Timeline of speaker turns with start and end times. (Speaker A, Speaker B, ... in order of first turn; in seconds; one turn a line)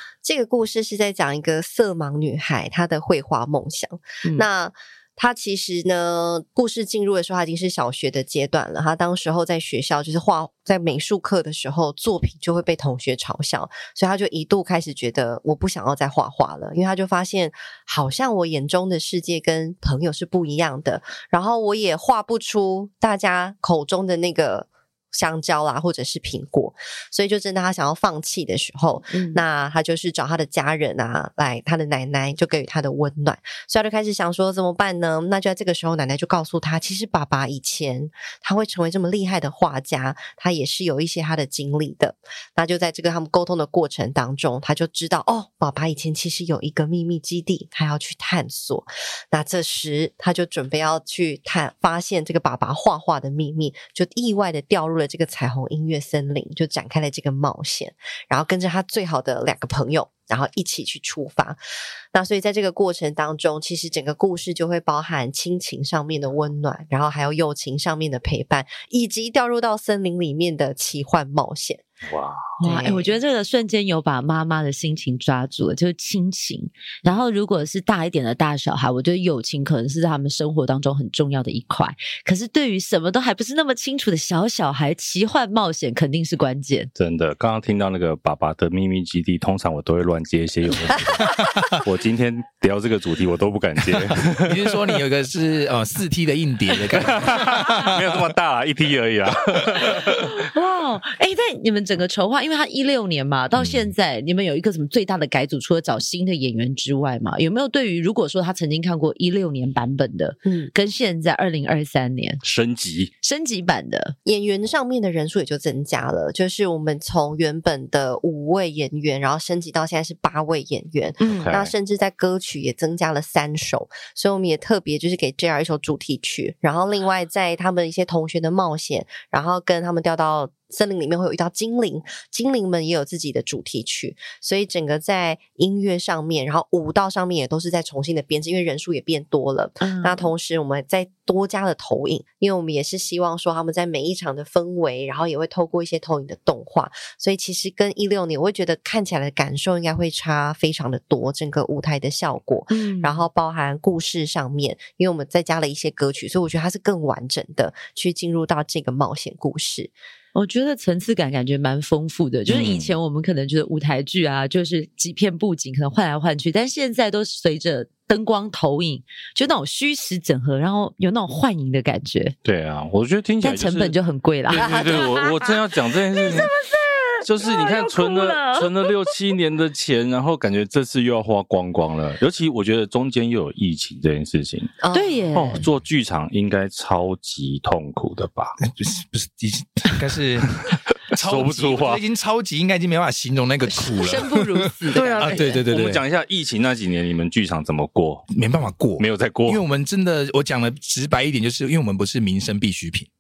Speaker A: 0.2-61.6
Speaker B: 29.1-29.4
Speaker A: 62.1-71.8
Speaker C: 72.1-72.5
Speaker A: 72.6-73.1
Speaker B: 72.6-86.9
Speaker C: 87.0-94.6
Speaker D: 94.3-98.3
Speaker C: 96.9-100.1
Speaker B: 99.8-112.4
Speaker A: 110.5-110.7
Speaker C: 112.4-113.1
Speaker B: 113.2-114.2
Speaker A: 114.2-159.9
Speaker B: 121.2-121.5
Speaker C: 121.4-121.7
Speaker B: 139.8-140.3
Speaker B: 152.7-153.3
Speaker B: 160.3-172.4
Speaker C: 162.5-162.9
Speaker C: 172.4-173.9
Speaker B: 173.4-175.5
Speaker C: 174.5-176.6
Speaker B: 176.2-179.1
Speaker C: 177.2-184.7
Speaker A: 184.8-185.2
Speaker B: 184.9-185.7
Speaker C: 185.3-188.6
Speaker D: 188.7-190.6
Speaker C: 191.1-192.0
Speaker D: 191.1-196.0
Speaker B: 193.7-195.7
Speaker C: 194.9-198.3
Speaker D: 198.3-203.1
Speaker C: 199.0-199.6